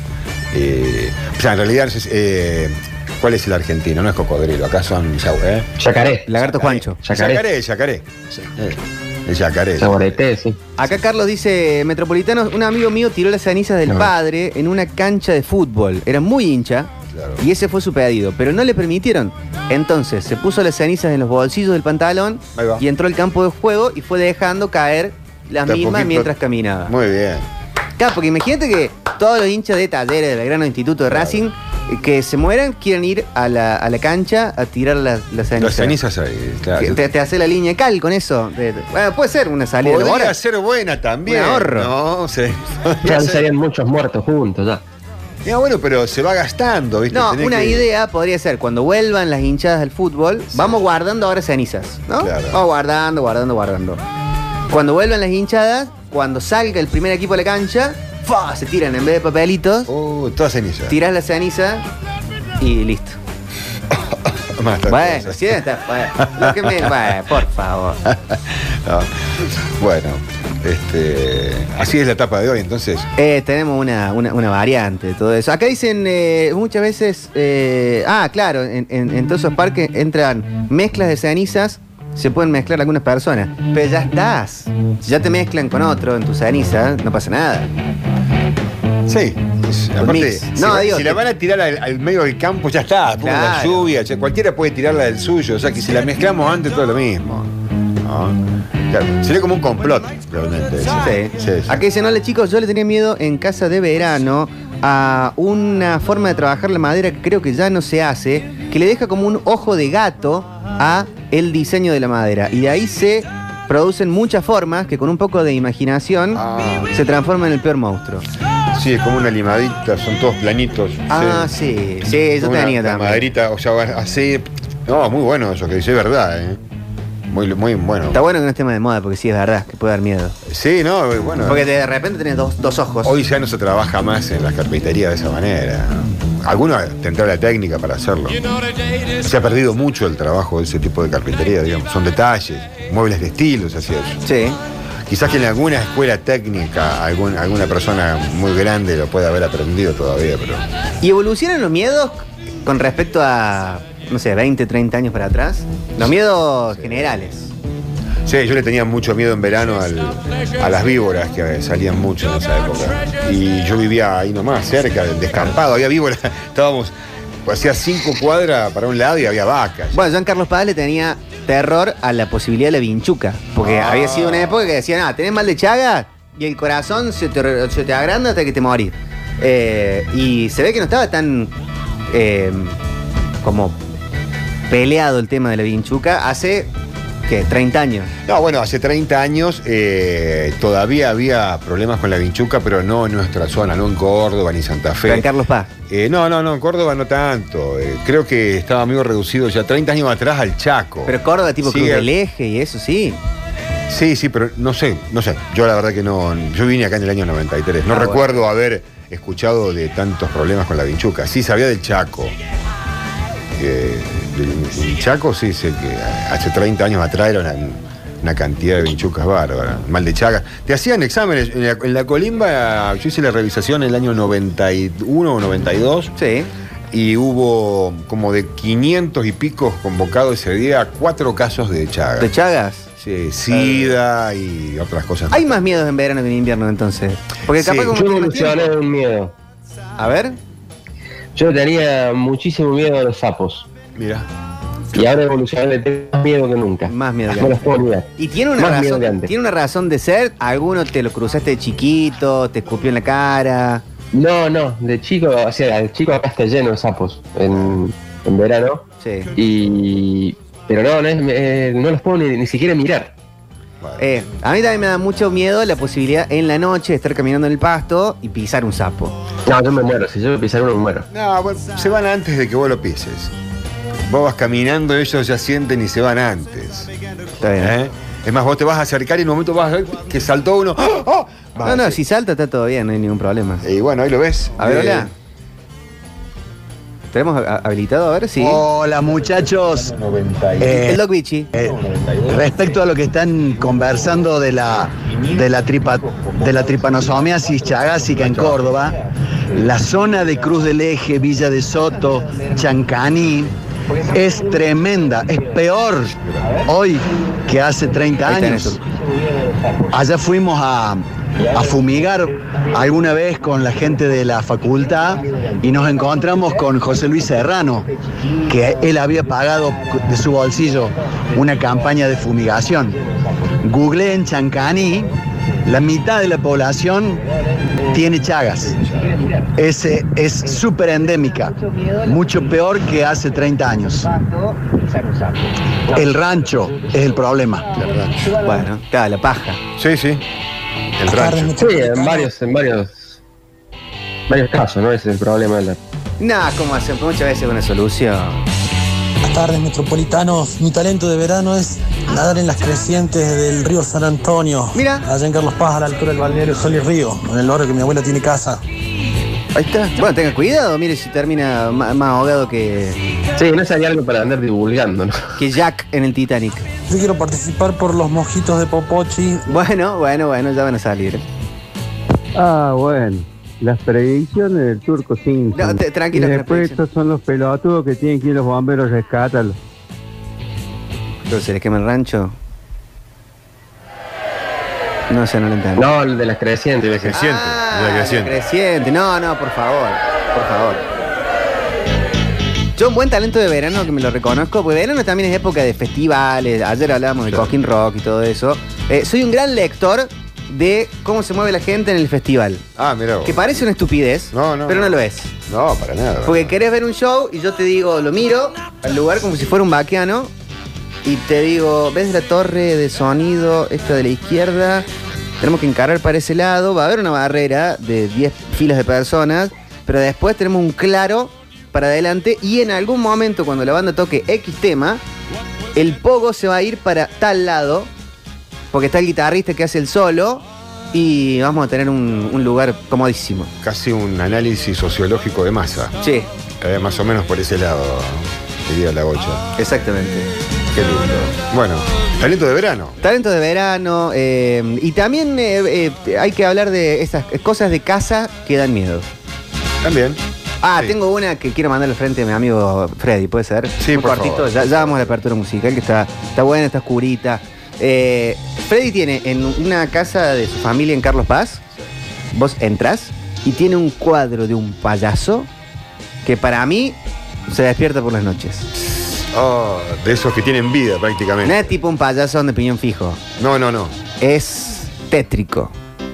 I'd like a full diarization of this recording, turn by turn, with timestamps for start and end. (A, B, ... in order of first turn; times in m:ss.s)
0:00.5-0:05.7 A
0:05.8-0:06.3 B
0:06.3-0:07.0 C
0:06.4-0:10.2 A
0:07.0-0:07.4 B
0:09.8-0:10.6 B
0:10.8-0:26.9 C
0:13.9-0:14.1 B
0:17.1-0:17.4 A
0:22.5-0:22.8 A
0:25.6-0:26.3 A
0:26.8-0:27.5 A
0:28.0-0:36.0 C
0:31.1-0:31.4 A
0:35.6-0:37.0 A
0:36.8-0:40.4 C
0:39.8-0:43.5 A
0:41.2-0:41.9 C
0:43.0-0:44.8 B
0:45.4-0:47.9 A
0:47.1-0:54.0 C
0:50.5-0:50.8 A
0:52.2-0:52.6 A
0:54.7-0:59.9 C
0:59.9-1:01.0 A
1:00.9-1:01.9 C
1:02.6-1:03.2 C
1:03.9-1:07.1 A
1:04.9-1:08.0 C
1:08.0-1:13.1 A
1:13.2-1:27.7 C
1:29.1-1:41.8 A
1:30.0-1:31.2 C
1:33.2-1:33.9 C
1:40.9-1:58.2 C
1:56.3-1:57.0 A
1:58.7-2:01.5 A
2:01.1-2:03.3 C
2:02.1-2:06.6 A
2:07.3-2:08.2 A
2:08.1-2:10.4 C
2:10.4-2:11.7 A
2:11.4-2:13.1 C
2:13.0-2:18.5 A
2:19.2-2:24.2 A
2:24.2-2:24.6 C
2:25.1-2:30.6 A
2:31.0-2:37.5 C
2:36.7-2:37.3 A
2:38.2-2:50.0 A
2:49.9-3:01.5 C
2:53.6-2:54.7 A
3:02.1-3:02.8 C
3:03.4-3:03.8 C
3:04.7-3:06.7 C
3:07.3-3:08.1 C
3:08.2-3:15.3 A
3:15.0-3:15.7 C
3:15.9-3:22.1 A
3:21.0-3:23.2 C
3:23.9-3:32.4 A
3:27.9-3:28.2 C
3:33.6-3:46.1 A
3:46.2-3:46.5 C
3:46.9-3:52.3 A
3:52.2-3:52.9 C
3:53.0-3:55.6 A
3:53.6-3:53.9 C
3:55.3-3:58.7 C
3:57.6-3:57.9 A
3:57.9-3:59.3 B
4:00.0-4:00.4 C
4:01.4-4:03.7 B
4:04.0-4:04.3 A
4:04.9-4:09.3 B
4:06.9-4:13.8 C
4:14.1-4:23.1 B
4:17.5-4:17.8 A
4:19.0-4:19.3 C
4:23.8-4:24.1 A
4:24.0-4:29.2 C
4:29.4-4:31.1 B
4:31.1-4:33.3 A
4:34.1-4:36.9 A
4:37.4-4:37.8 C
4:37.6-4:42.0 A
4:41.6-4:43.6 C
4:43.6-4:45.1 A
4:44.6-4:45.1 C
4:47.1-4:48.6 C
4:48.4-4:48.7 A
4:48.5-4:49.9 D
4:49.9-4:50.8 A
4:50.6-4:51.5 C
4:50.6-4:51.0 D
4:51.5-4:52.5 A
4:52.3-4:59.0 D
4:54.9-4:55.4 A
4:56.0-4:56.4 A
4:58.1-4:58.7 A
4:59.5-5:03.5 D
5:04.0-5:08.8 D
5:06.2-5:06.5 A
5:08.2-5:08.8 C
5:09.9-5:17.9 D
5:18.4-5:23.0 D
5:23.6-5:25.1 D
5:25.6-5:27.2 D
5:27.9-5:28.8 D
5:29.5-5:34.2 D
5:35.9-5:37.8 D
5:37.7-5:38.3 A
5:38.3-5:39.6 C
5:39.8-5:40.2 A
5:41.0-5:41.5 A
5:41.0-5:42.3 E
5:41.6-5:43.1 B
5:44.3-5:45.8 B
5:46.2-5:48.4 C
5:49.2-5:58.6 E
5:54.7-5:55.1 C
5:59.5-6:03.0 C
6:03.4-6:05.3 B
6:05.4-6:06.7 C
6:06.9-6:09.4 E
6:09.5-6:11.2 C
6:12.4-6:19.6 F
6:15.5-6:16.8 C
6:21.3-6:22.4 C
6:25.1-6:25.9 C
6:25.8-6:27.2 B
6:26.9-6:28.4 A
6:27.1-6:30.8 C
6:32.8-6:42.6 C
6:37.2-6:37.5 A
6:42.8-6:43.6 A
6:43.2-6:45.3 C
6:44.3-6:46.6 A
6:46.2-6:50.3 C
6:51.0-6:54.8 C
6:55.4-7:05.0 C
7:05.7-7:07.9 C
7:08.7-7:13.5 C
7:13.6-7:15.9 A
7:16.0-7:16.3 C
7:16.6-7:19.5 A
7:19.6-7:20.3 C
7:20.7-7:23.0 A
7:23.0-7:29.1 C
7:29.8-7:30.2 A
7:30.6-7:41.6 C
7:33.8-7:35.0 A
7:42.3-7:45.5 C
7:46.2-7:48.7 C
7:48.9-7:51.8 A
7:51.4-7:53.2 C
7:53.4-7:54.0 A
7:54.2-7:55.7 C